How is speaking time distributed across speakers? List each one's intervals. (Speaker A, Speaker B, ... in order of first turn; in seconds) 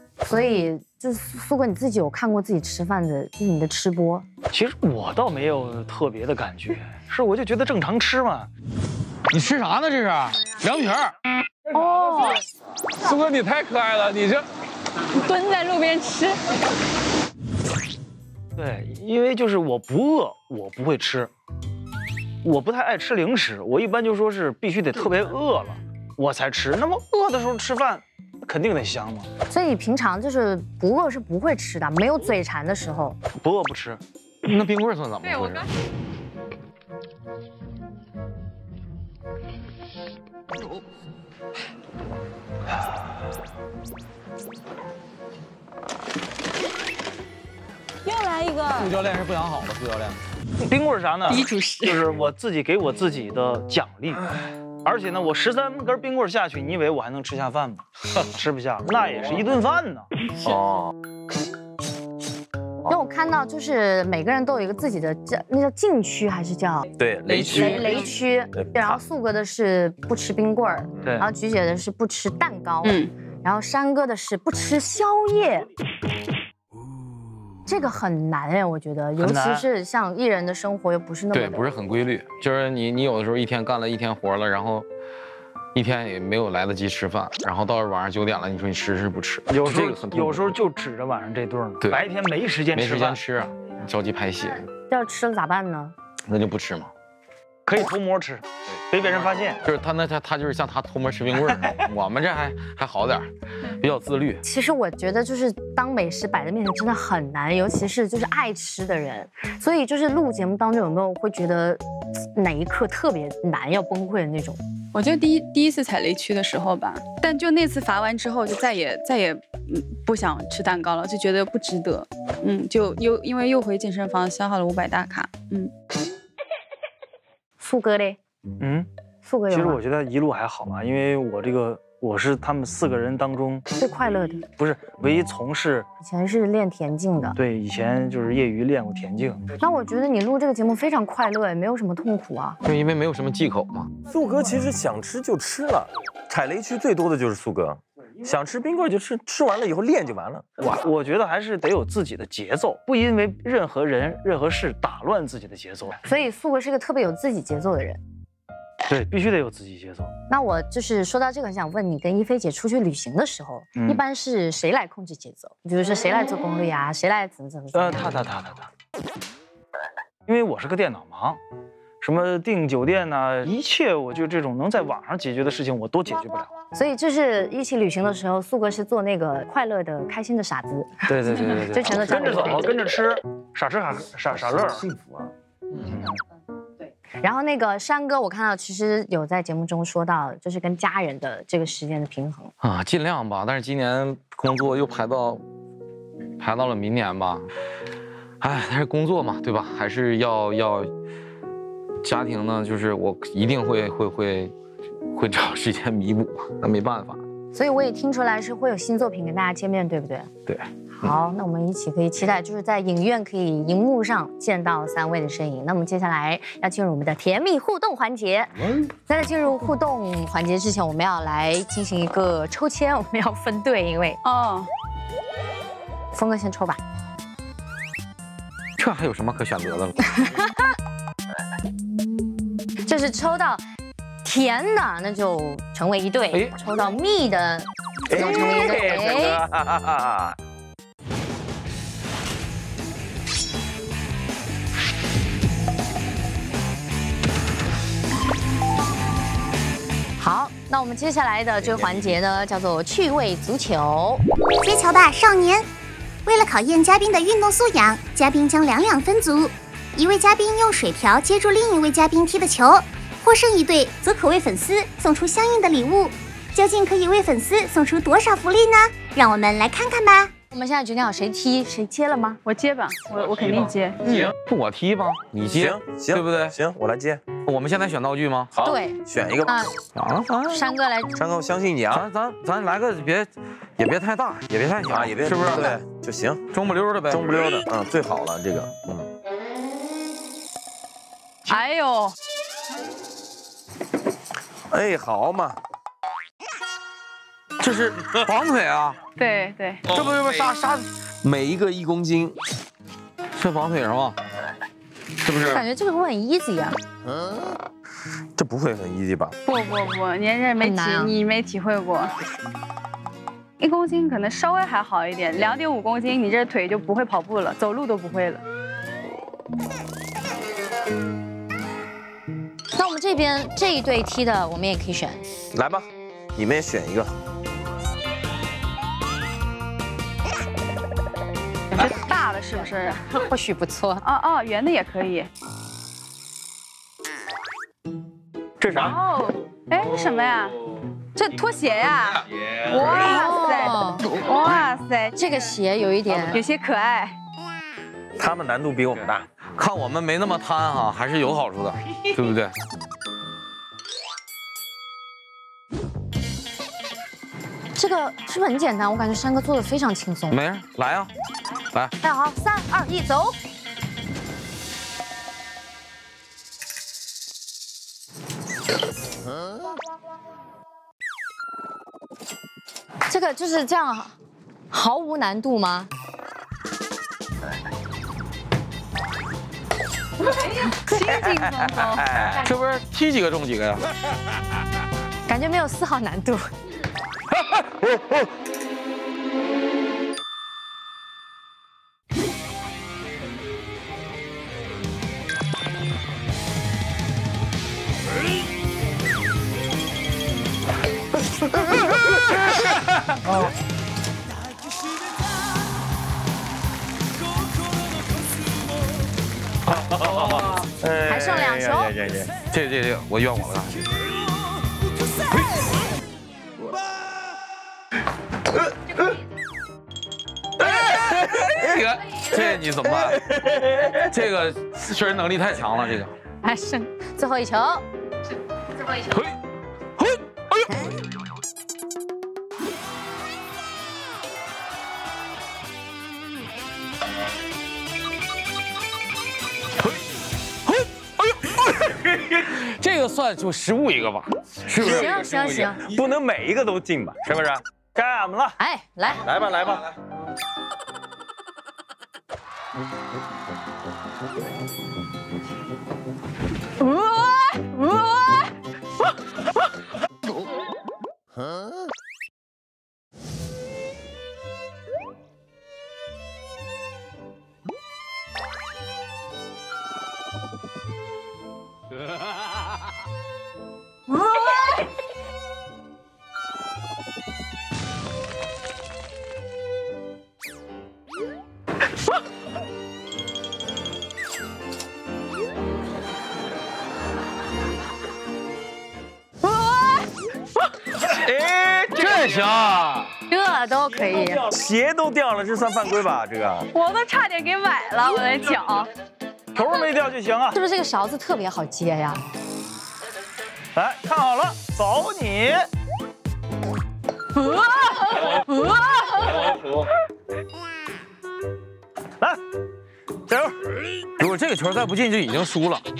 Speaker A: 0.2-4.2, 29.5-33.2, 48.1-48.7, 62.9-75.7, 77.7-81.6, 94.9-95.9, 104.4-111.8, 112.3-114.6, 127.6-128.2, 129.2-129.8, 133.8-134.4, 136.0-137.4, 139.6-142.6, 156.0-158.0, 160.3-168.1, 176.7-181.0, 181.7-182.7, 187.2-192.5, 207.5-210.3, 211.0-218.5, 219.1-224.2, 226.1-226.8, 230.2-230.7, 232.8-233.6, 234.2-239.4, 250.2-254.2, 270.5-272.4, 278.6-279.7, 280.5-281.1, 305.4-306.8, 310.6-311.1, 322.7-325.2, 333.1-334.0, 342.8-344.1, 345.1-346.4, 357.8-360.4, 362.0-363.4, 373.1-374.1, 374.7-375.9, 385.3-386.5, 411.1-411.9, 426.4-427.8, 430.7-430.9, 444.8-445.8, 448.6-449.2, 456.8-458.5, 493.3-494.4, 500.5-502.2
Speaker B: 4.5-8.5, 18.6-21.3, 22.4-29.3, 33.4-34.0, 50.6-54.3, 54.8-60.1, 79.2-79.7, 89.5-93.2, 97.7-99.6, 128.6-128.9, 129.5-133.7, 134.6-135.9, 137.3-139.4, 150.6-156.0, 158.9-160.1, 163.8-164.0, 167.7-168.7, 170.2-171.4, 172.0-176.5, 181.1-184.9, 185.8-186.2, 447.9-448.6, 499.5-500.6, 503.7-505.7, 513.3-513.6
Speaker C: 9.3-11.1, 13.0-14.4, 34.4-35.7, 48.7-50.2, 81.3-84.9, 85.7-90.6, 91.8-92.1, 92.7-94.7, 96.3-96.9, 99.6-104.4, 142.6-143.9, 192.6-195.4, 196.4-197.5, 198.4-200.9, 202.0-204.5, 205.1-207.2, 228.8-230.0, 274.1-276.6, 277.4-278.5, 279.9-280.6, 281.9-285.7, 286.5-287.5, 297.6-299.0, 299.9-300.9, 303.3-304.2, 305.2-305.6, 349.6-352.5, 360.3-361.1, 382.4-383.9, 412.5-413.9, 420.6-426.1, 428.9-429.4, 430.0-430.7, 440.6-445.7, 491.9-493.1, 514.2-515.8
Speaker D: 11.7-12.4, 15.1-16.4, 51.3-52.0, 72.8-73.1, 114.9-125.7, 224.2-224.7, 272.4-274.3, 291.5-292.1, 299.2-299.8, 309.5-312.1, 313.6-318.4, 331.7-333.1, 334.0-335.3, 338.7-340.6, 341.1-345.1, 346.2-347.1, 380.5-382.0, 489.5-489.9, 496.7-498.9, 507.4-509.6
Speaker E: 60.4-60.9, 67.0-67.9, 68.5-69.0, 71.0-71.2, 144.1-150.4, 238.1-240.3, 251.7-252.0, 275.5-277.2, 278.5-279.6, 281.1-282.1, 284.9-286.5, 287.1-289.1, 294.7-295.6, 301.2-302.4, 308.4-309.3, 325.5-327.1, 348.2-349.3, 381.1-382.4, 409.7-412.4, 421.4-421.7, 423.1-424.0, 445.8-447.6, 449.2-449.9, 491.1-492.3, 494.5-496.7
Speaker F: 254.6-255.7, 256.2-270.3